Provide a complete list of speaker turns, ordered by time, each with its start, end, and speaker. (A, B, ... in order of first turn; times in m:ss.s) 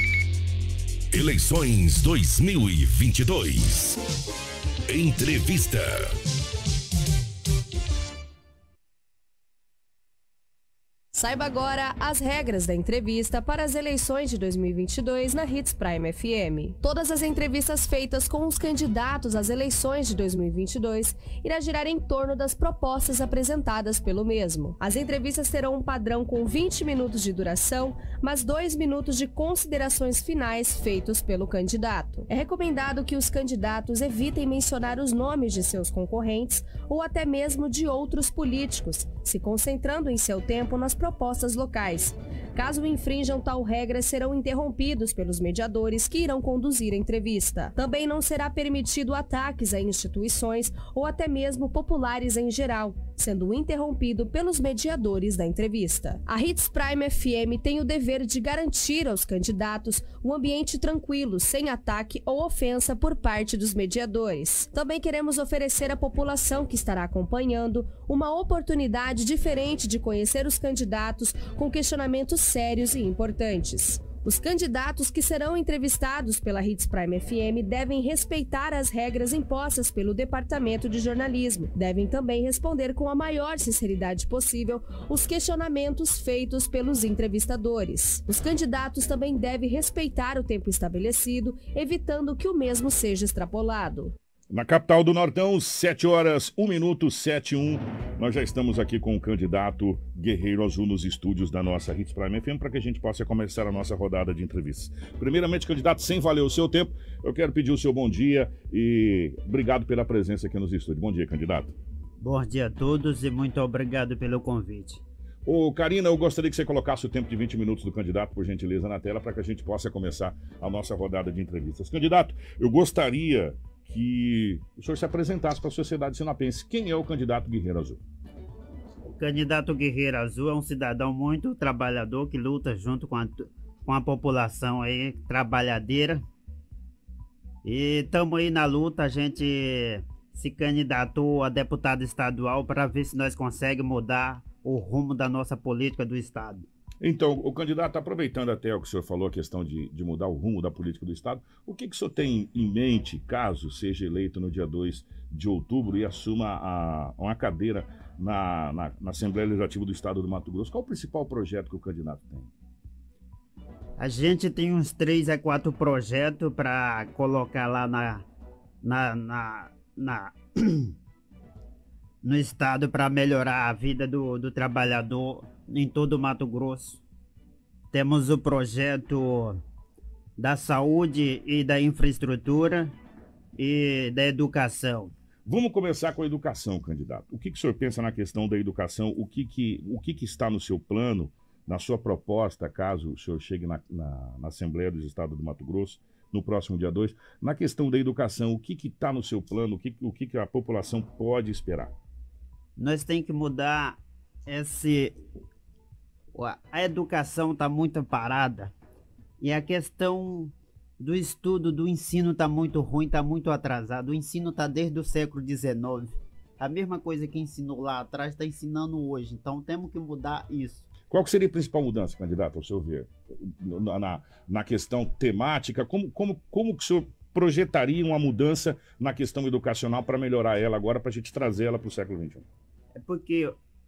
0:01.1-0:04.0 A
0:04.9-0:05.8 A
0:11.1-1:34.1 B
1:34.5-1:51.7 C
1:52.2-1:55.0 D
1:55.4-2:08.0 C
2:09.1-2:16.2 D
2:17.6-2:26.7 D
2:27.0-2:42.5 C
2:44.0-2:48.2 D
2:48.8-2:50.9 D
2:52.2-2:57.0 D
2:57.9-2:59.6 D
3:00.4-3:02.9 D
3:03.6-3:05.1 D
3:05.4-3:21.9 C
3:22.8-3:25.2 D
3:26.3-3:28.7 D
3:29.4-3:40.9 D
3:41.1-3:52.5 C
3:52.9-3:53.6 D